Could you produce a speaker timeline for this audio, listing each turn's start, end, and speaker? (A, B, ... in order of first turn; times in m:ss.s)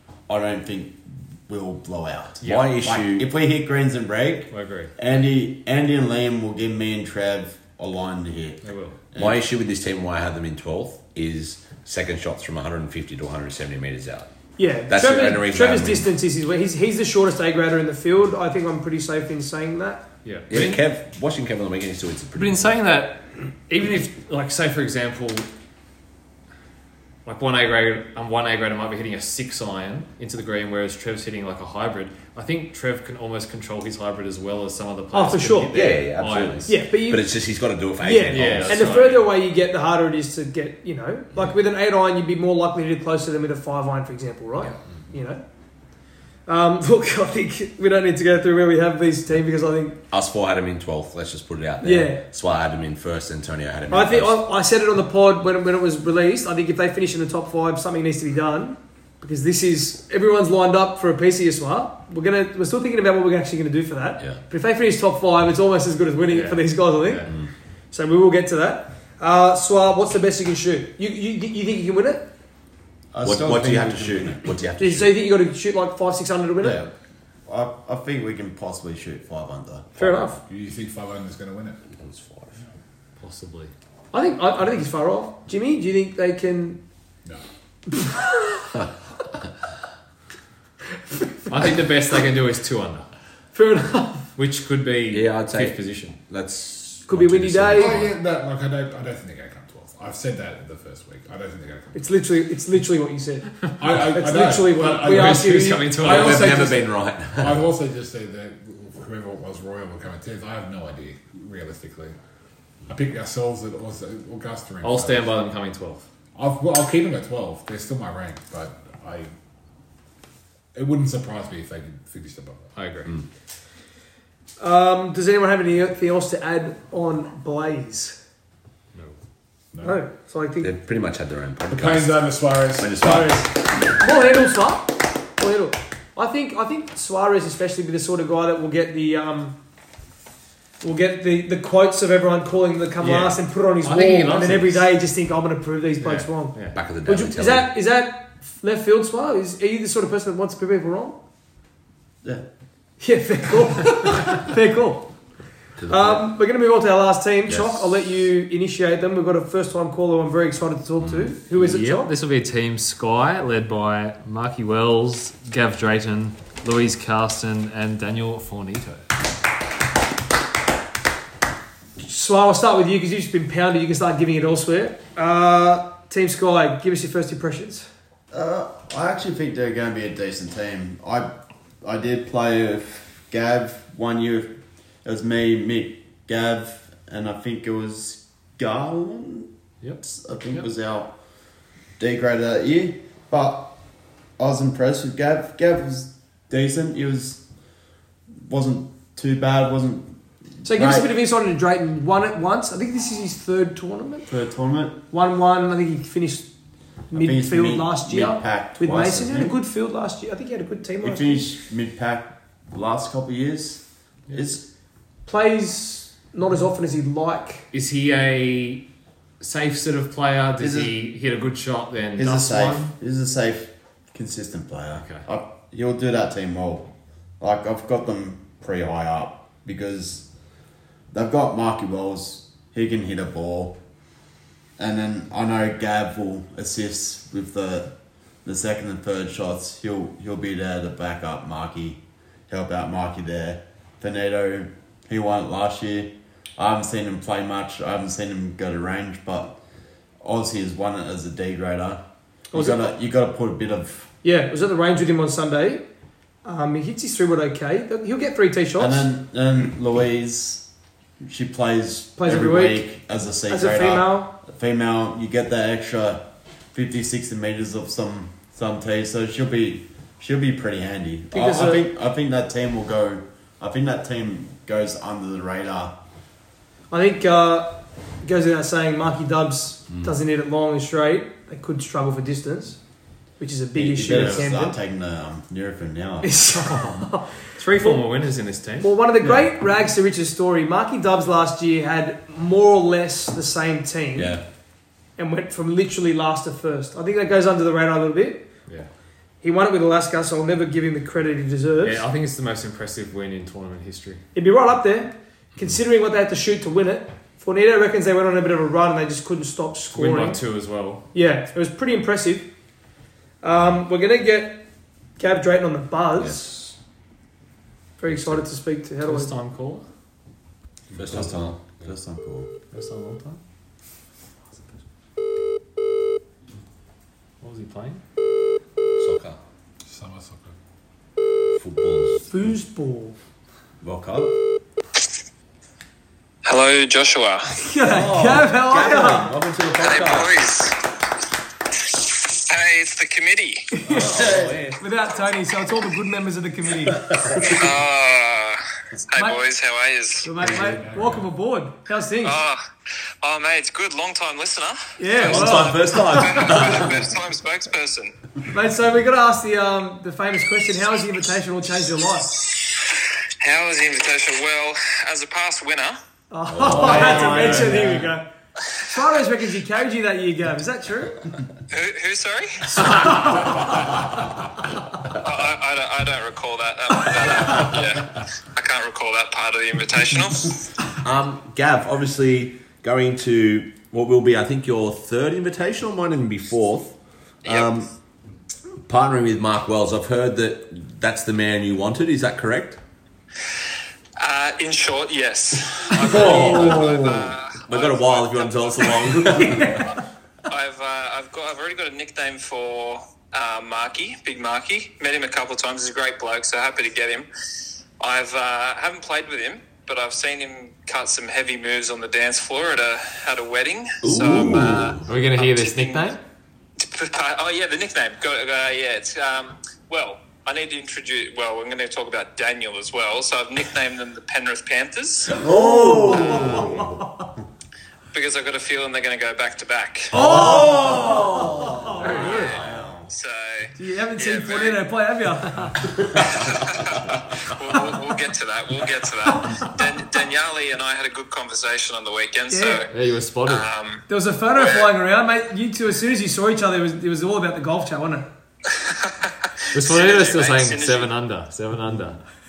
0:00.3-0:09.5 A
0:02.4-0:02.7 B
0:02.4-0:03.3 C
0:04.5-0:04.9 B
0:08.6-0:09.0 B
0:09.2-0:14.3 C
0:14.6-0:20.0 D
0:14.9-0:16.1 C
0:20.2-0:20.8 B
0:20.5-0:22.7 C
0:22.4-0:25.5 B
0:27.2-0:36.7 B
0:35.1-0:35.8 D
0:35.7-0:39.0 C
0:36.6-0:37.3 D
0:38.0-0:45.4 D
0:38.3-0:39.3 B
0:46.5-0:50.0 D
0:50.1-0:54.4 C
0:51.8-0:52.2 D
0:53.9-1:07.3 D
1:06.3-1:07.3 B
1:07.9-1:12.3 D
1:13.1-1:14.5 A
1:13.2-1:15.1 C
1:14.8-1:16.8 D
1:16.6-1:16.9 A
1:17.4-1:19.9 A
1:20.0-1:20.4 D
1:20.4-1:21.8 E
1:21.9-1:22.6 C
1:23.2-1:23.7 B
1:24.1-1:26.8 D
1:27.9-1:28.6 D
1:31.5-1:33.1 B
1:33.5-1:34.3 D
1:34.3-1:36.2 B
1:35.1-1:38.1 C
1:37.1-1:38.0 D
1:37.7-1:42.0 E
1:41.9-1:46.0 D
1:43.8-1:52.2 E
1:44.8-1:46.7 B
1:46.0-1:47.6 C
1:52.9-1:55.3 E
1:54.8-1:56.0 B
1:56.3-1:59.3 E
2:00.7-2:02.7 E
2:02.7-2:03.1 B
2:04.6-2:08.2 D
2:09.7-2:10.0 E
2:09.8-2:10.7 D
2:10.6-2:13.5 C
2:11.7-2:13.4 E
2:13.8-2:19.6 D
2:20.8-2:31.2 D
2:23.0-2:24.9 B
2:26.0-2:26.8 B
2:26.7-2:27.7 C
2:33.0-2:35.2 D
2:35.8-2:36.3 C
2:35.9-2:42.1 D
2:37.4-2:38.0 C
2:41.0-2:41.3 C
2:41.5-2:49.1 B
2:52.0-2:57.9 D
2:58.3-3:11.1 A
3:09.8-3:10.7 B
3:12.0-3:13.8 A
3:14.4-3:17.4 A
3:18.4-3:21.1 A
3:20.6-3:24.3 D
3:24.3-3:25.0 A
3:25.1-3:26.5 D
3:27.1-3:31.4 D
3:27.1-3:29.6 A
3:31.0-3:34.6 A
3:35.3-3:37.7 D
3:37.7-3:38.8 B
3:39.4-3:42.9 B
3:40.6-3:40.9 A
3:42.2-3:50.2 A
3:45.0-3:45.2 B
3:51.1-3:53.8 A
3:54.8-3:57.9 A
3:58.4-4:09.6 A
4:10.2-4:14.1 A
4:12.5-4:12.9 D
4:14.2-4:15.8 D
4:16.4-4:19.0 D
4:18.8-4:20.7 A
4:21.2-4:36.0 A
4:22.2-4:22.8 D
4:23.5-4:24.3 D
4:31.3-4:31.8 D
4:36.9-4:42.8 D
4:43.4-4:44.8 D
4:43.7-4:46.6 A
4:46.2-4:48.0 D
4:47.6-4:48.9 B
4:48.8-4:54.4 D
4:49.2-4:49.5 A
4:54.2-4:54.4 C
4:55.2-4:58.5 D
4:59.4-5:02.0 D
5:01.8-5:04.2 B
5:04.3-5:10.4 D
5:09.9-5:11.0 B
5:11.1-5:12.5 D
5:13.4-5:14.6 D
5:15.2-5:16.7 D
5:16.2-5:16.5 C
5:18.0-5:19.3 D
5:18.1-5:18.4 C
5:19.0-5:19.8 B
5:20.9-5:21.9 C
5:21.1-5:22.5 A
5:22.7-5:23.4 B
5:27.4-5:28.0 B
5:29.0-5:29.4 C
5:29.9-5:30.5 E
5:31.5-5:32.4 C
5:32.3-5:33.2 D
5:33.8-5:34.4 C
5:36.4-5:37.5 F
5:37.6-5:39.4 D
5:37.9-5:40.4 C
5:39.7-5:40.8 F
5:42.3-5:43.7 F
5:43.8-5:47.4 D
5:43.9-5:44.8 C
5:44.0-5:44.6 A
5:47.1-5:47.5 C
5:47.4-5:48.6 F
5:49.1-5:50.3 F
5:50.2-5:52.4 D
5:50.4-5:51.3 E
5:52.2-5:52.6 F
5:53.2-5:58.1 F
5:55.0-5:56.5 D
5:55.2-5:57.1 C
5:58.5-6:02.3 D
6:03.4-6:06.0 F
6:06.3-6:08.3 D
6:06.5-6:07.7 C
6:06.8-6:07.8 B
6:07.0-6:07.5 A
6:08.8-6:11.2 D
6:11.7-6:13.4 F
6:12.8-6:13.5 D
6:15.2-6:20.6 F
6:21.0-6:27.9 C
6:27.4-6:27.8 F
6:28.8-6:32.8 C
6:34.2-6:39.4 F
6:35.9-6:39.9 C
6:39.4-6:39.8 D
6:40.5-6:47.3 F
6:48.0-6:56.1 F
6:54.0-6:55.1 C
6:55.0-6:56.2 B
6:56.8-7:05.4 F
7:05.4-7:06.9 A
7:05.4-7:07.0 C
7:05.5-7:07.3 D
7:08.1-7:10.2 F
7:10.1-7:12.5 D
7:10.1-7:12.7 C
7:10.6-7:11.2 A
7:12.1-7:14.8 F
7:12.5-7:13.0 A
7:13.8-7:15.8 D
7:16.3-7:22.9 F
7:19.4-7:19.7 D
7:22.5-7:22.8 D
7:22.9-7:23.7 B
7:23.4-7:24.0 F
7:24.1-7:28.3 D
7:24.5-7:24.9 F
7:28.8-7:31.1 F
7:29.7-7:32.2 B